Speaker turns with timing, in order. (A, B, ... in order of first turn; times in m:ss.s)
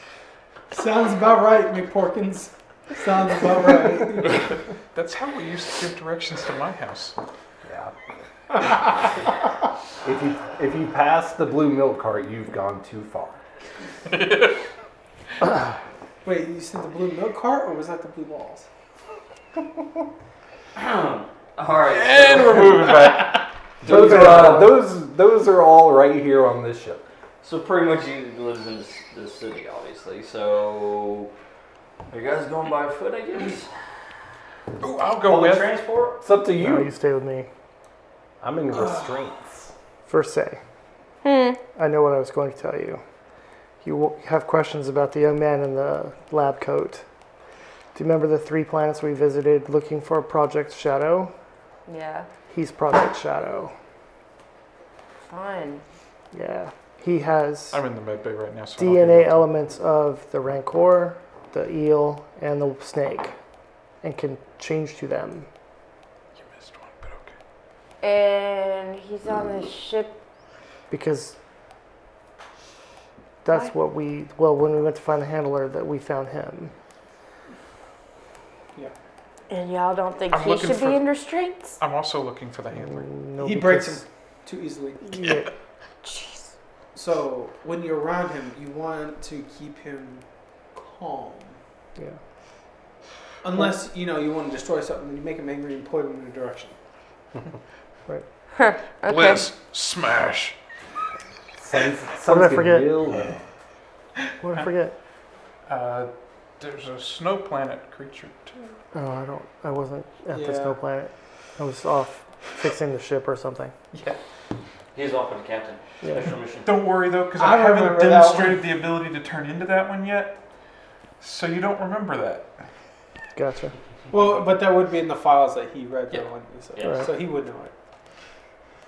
0:00.7-0:04.6 A
0:04.9-0:07.2 B
0:07.6-0:07.9 C
0:10.0-0:13.4 C
0:16.2-0:18.7 A
0:20.8-0:22.8 D
0:21.9-0:24.0 B
0:23.8-0:27.0 C
0:23.9-0:24.7 D
0:24.2-0:24.5 A
0:27.4-0:31.3 D
0:32.1-0:33.7 D
0:34.8-0:35.7 B
0:35.2-0:36.2 D
0:36.2-0:36.9 C
0:36.5-0:37.5 E
0:38.4-0:39.7 C
0:40.1-0:40.6 E
0:41.2-0:41.6 F
0:41.8-0:43.0 E
0:43.8-0:47.0 E
0:47.9-0:51.3 E
0:51.9-0:52.3 F
0:52.5-0:53.7 E
0:55.3-0:55.8 F
0:56.3-0:57.8 E
0:57.7-0:59.4 B
0:58.8-1:03.3 E
1:04.0-1:05.5 E
1:06.4-1:07.4 B
1:08.0-1:10.2 F
1:10.9-1:11.4 E
1:13.4-1:16.7 E
1:19.5-1:21.8 F
1:20.3-1:21.1 B
1:21.8-1:23.1 B
1:22.8-1:24.0 E
1:23.4-1:25.1 A
1:26.0-1:26.4 F
1:26.9-1:31.6 A
1:33.4-1:36.8 A
1:38.6-1:39.5 F
1:39.0-1:40.6 B
1:41.6-1:43.4 C
1:42.3-1:42.9 E
1:44.4-1:45.0 E
1:45.7-1:48.8 B
1:48.9-1:53.7 E
1:50.3-1:50.8 A
1:53.9-1:54.2 B
1:54.9-1:56.7 D
1:56.0-1:56.3 E
1:56.6-2:00.4 B
1:57.3-1:58.7 A
2:01.2-2:02.6 B
2:03.4-2:03.7 E
2:04.1-2:07.7 A
2:06.8-2:07.1 D
2:06.9-2:07.1 E